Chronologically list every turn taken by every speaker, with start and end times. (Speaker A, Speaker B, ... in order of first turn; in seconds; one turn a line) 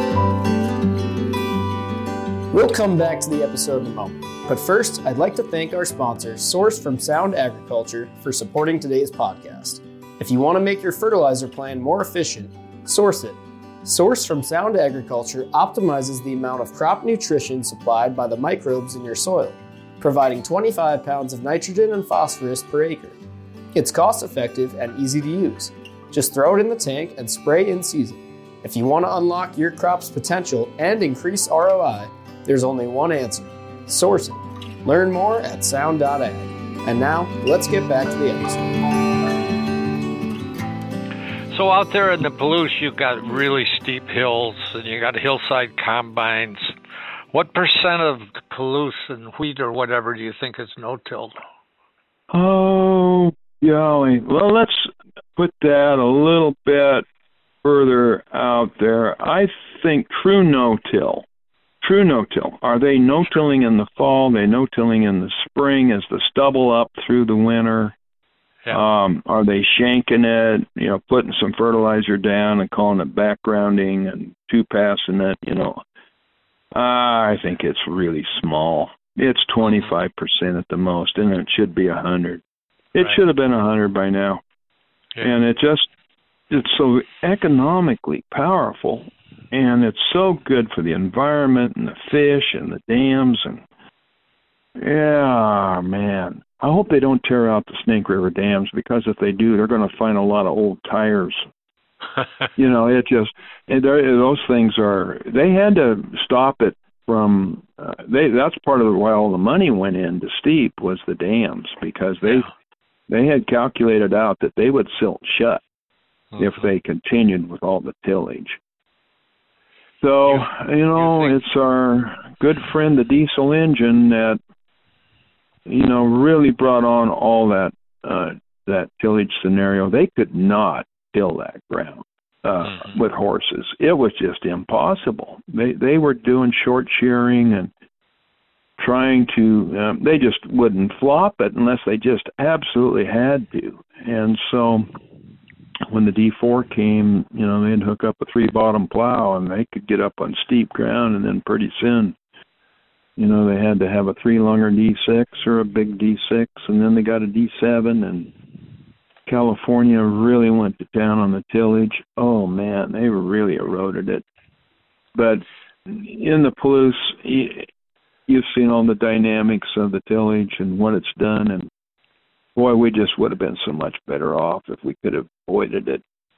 Speaker A: 2.5-23.2
Speaker A: 23.7-38.8
Speaker B: 41.5-46.8
Speaker B: 47.3-51.4
Speaker C: 52.3-57.0
Speaker C: 57.6-61.2
Speaker C: 61.8-68.0
Speaker C: 68.7-75.8
Speaker C: 76.7-82.4
Speaker C: 82.9-84.4
Speaker C: 85.2-85.9
Speaker C: 86.5-93.6
Speaker C: 94.8-101.4
Speaker C: 102.5-112.5
Speaker C: 113.1-115.6
Speaker C: 116.4-118.6
Speaker C: 120.0-124.4
Speaker B: 121.0-121.3
Speaker C: 125.7-137.7
Speaker B: 132.7-132.9
Speaker C: 138.8-144.8
Speaker C: 145.9-152.2
Speaker C: 153.2-158.3
Speaker C: 159.2-164.2
Speaker C: 165.1-167.7
Speaker C: 168.3-171.7
Speaker C: 172.5-176.0